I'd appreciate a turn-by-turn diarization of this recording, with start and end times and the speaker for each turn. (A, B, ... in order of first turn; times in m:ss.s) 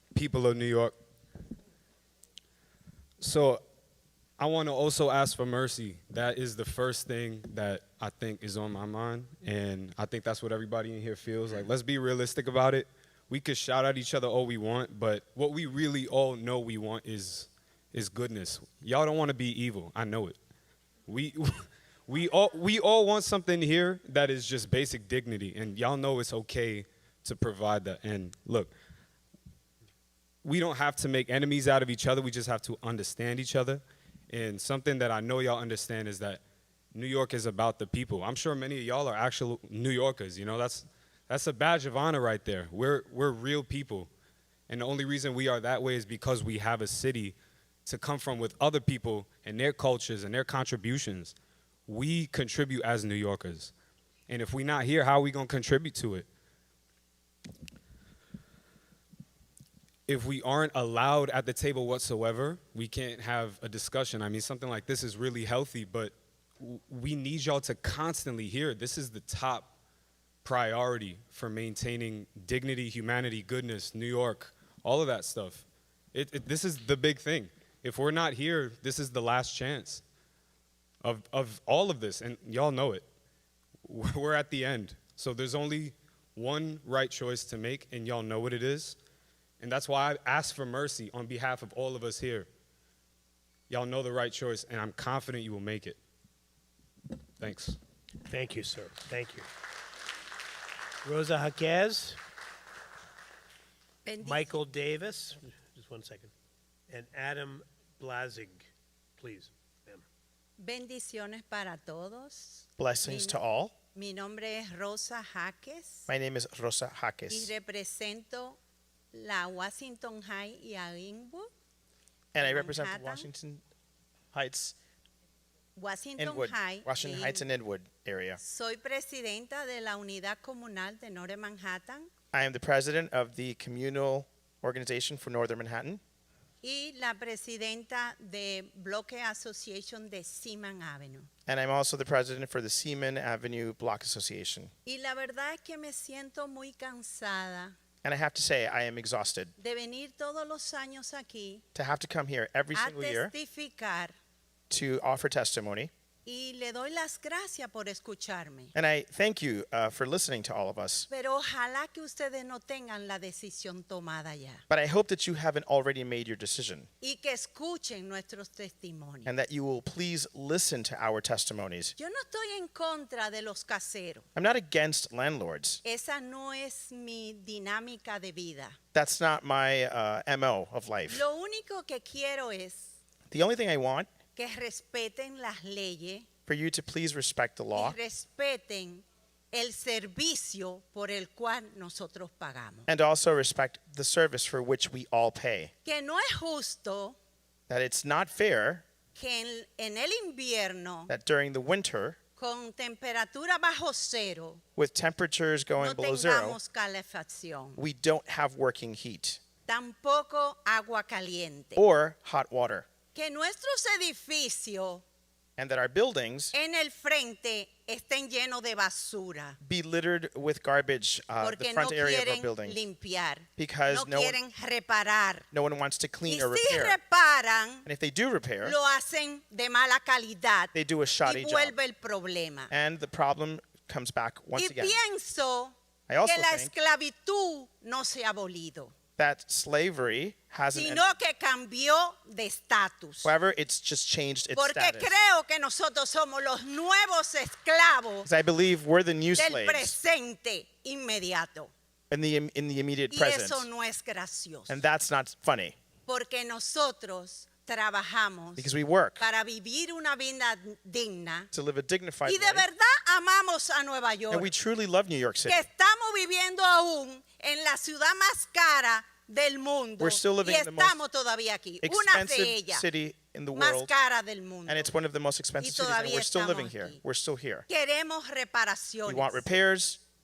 0:00.1-0:01.0 A
0:03.2-0:03.6 A
0:04.4-0:20.4 A
0:21.1-0:28.7 A
0:30.4-0:36.4 A
0:36.9-0:44.1 A
0:44.7-0:51.4 A
0:51.9-0:53.7 A
0:54.3-0:56.3 A
1:00.1-1:09.7 A
1:10.4-1:20.0 A
1:21.0-1:23.1 A
1:23.8-1:29.0 A
1:29.6-1:32.5 A
1:33.7-1:36.0 A
1:37.4-1:37.8 A
1:38.3-1:39.5 B
1:41.0-1:42.2 B
1:44.0-1:44.5 C
1:44.2-1:46.3 B
1:46.9-1:50.0 B
1:50.6-1:53.4 C
1:52.8-1:53.7 D
1:54.0-1:56.1 C
1:56.1-1:57.5 D
1:57.3-1:58.6 C
1:59.1-2:01.5 C
2:02.4-2:03.6 D
2:02.4-2:03.3 C
2:04.3-2:04.8 D
2:05.8-2:07.4 C
2:06.2-2:08.4 D
2:08.4-2:12.1 C
2:12.3-2:16.0 D
2:16.6-2:21.3 C
2:21.5-2:24.7 D
2:24.9-2:27.8 C
2:28.0-2:29.5 D
2:29.6-2:31.6 C
2:31.8-2:33.3 D
2:32.7-2:34.2 C
2:34.7-2:35.9 D
2:36.2-2:38.7 C
2:38.8-2:41.1 D
2:41.1-2:44.6 C
2:44.7-2:46.9 D
2:47.0-2:49.3 C
2:49.3-2:52.0 D
2:52.0-2:54.2 C
2:54.4-2:55.8 D
2:55.8-2:58.8 C
2:58.9-3:01.2 D
3:01.1-3:02.9 C
3:03.3-3:04.1 D
3:04.4-3:06.3 C
3:06.5-3:08.0 D
3:07.7-3:12.9 C
3:12.9-3:15.7 D
3:15.8-3:17.2 C
3:17.7-3:18.8 D
3:19.2-3:21.1 C
3:21.1-3:22.2 D
3:22.4-3:24.6 C
3:24.8-3:26.6 D
3:25.8-3:27.8 C
3:27.8-3:29.4 D
3:29.7-3:31.8 C
3:31.8-3:32.9 D
3:33.1-3:35.0 C
3:35.6-3:36.5 D
3:36.5-3:39.6 C
3:39.6-3:42.8 D
3:41.4-3:45.5 C
3:43.6-3:44.4 D
3:45.5-3:47.0 D
3:46.3-3:47.9 C
3:47.8-3:48.8 D
3:48.6-3:52.7 C
3:50.7-3:51.8 D
3:52.7-3:55.0 D
3:54.6-3:58.9 C
3:56.1-3:56.7 D
3:59.2-4:01.1 D
4:00.7-4:03.3 C
4:03.2-4:05.1 D
4:04.6-4:08.3 C
4:08.2-4:10.0 D
4:09.4-4:11.7 C
4:12.1-4:13.7 D
4:13.1-4:14.8 C
4:14.7-4:15.8 D
4:16.1-4:21.5 C
4:18.6-4:19.2 D
4:21.5-4:22.7 D
4:22.3-4:24.5 C
4:24.3-4:25.6 D
4:25.5-4:32.8 C
4:30.0-4:31.0 D
4:31.8-4:33.9 D
4:33.5-4:34.9 C
4:34.7-4:37.7 D
4:35.6-4:37.0 C
4:37.7-4:39.4 C
4:39.1-4:40.0 D